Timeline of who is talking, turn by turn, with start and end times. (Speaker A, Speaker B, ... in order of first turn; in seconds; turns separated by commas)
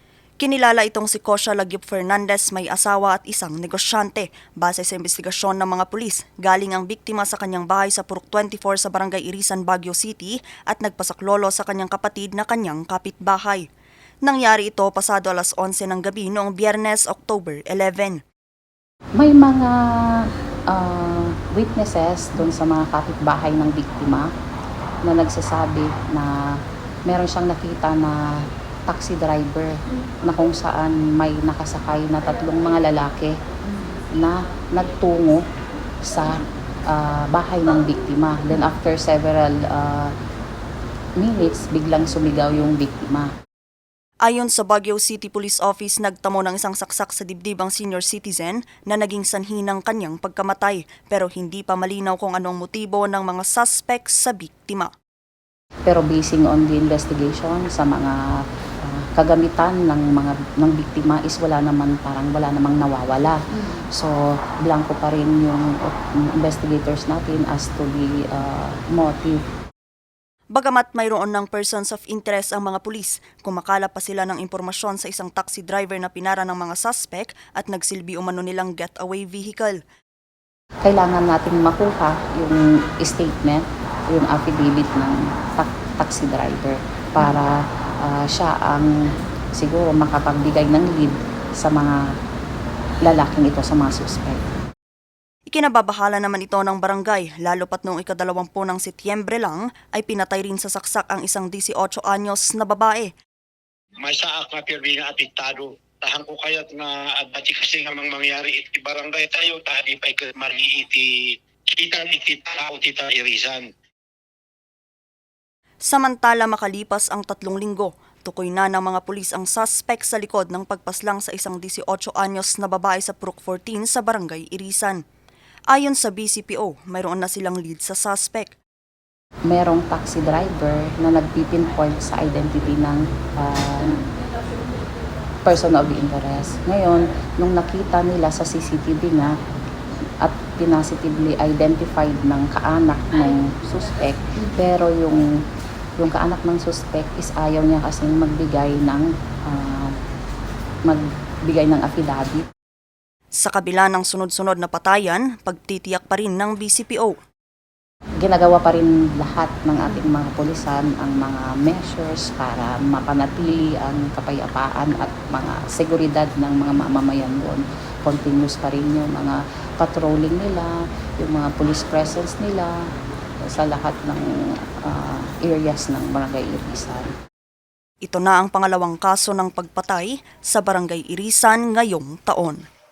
Speaker A: 0.4-13.6, Speaker A: 14.2-18.2, Speaker B: 19.2-24.3, Speaker B: 25.1-26.3, Speaker B: 27.1-33.4, Speaker B: 34.2-35.4, Speaker B: 36.0-40.1, Speaker B: 41.2-43.3, Speaker A: 44.3-54.9, Speaker B: 55.9-58.2, Speaker B: 58.8-64.1, Speaker B: 64.7-69.4, Speaker A: 70.5-79.8, Speaker B: 80.8-88.9, Speaker B: 89.5-92.0, Speaker B: 93.0-94.5, Speaker A: 95.5-103.1, Speaker C: 104.0-113.7, Speaker A: 115.9-125.0, Speaker A: 125.7-128.6, Speaker B: 129.5-134.0, Speaker B: 135.4-139.3, Speaker B: 140.2-145.2, Speaker B: 146.0-149.9, Speaker B: 150.9-152.5, Speaker A: 153.4-157.2, Speaker B: 158.2-172.8, Speaker B: 173.5-174.3, Speaker B: 174.8-177.1, Speaker A: 178.0-182.7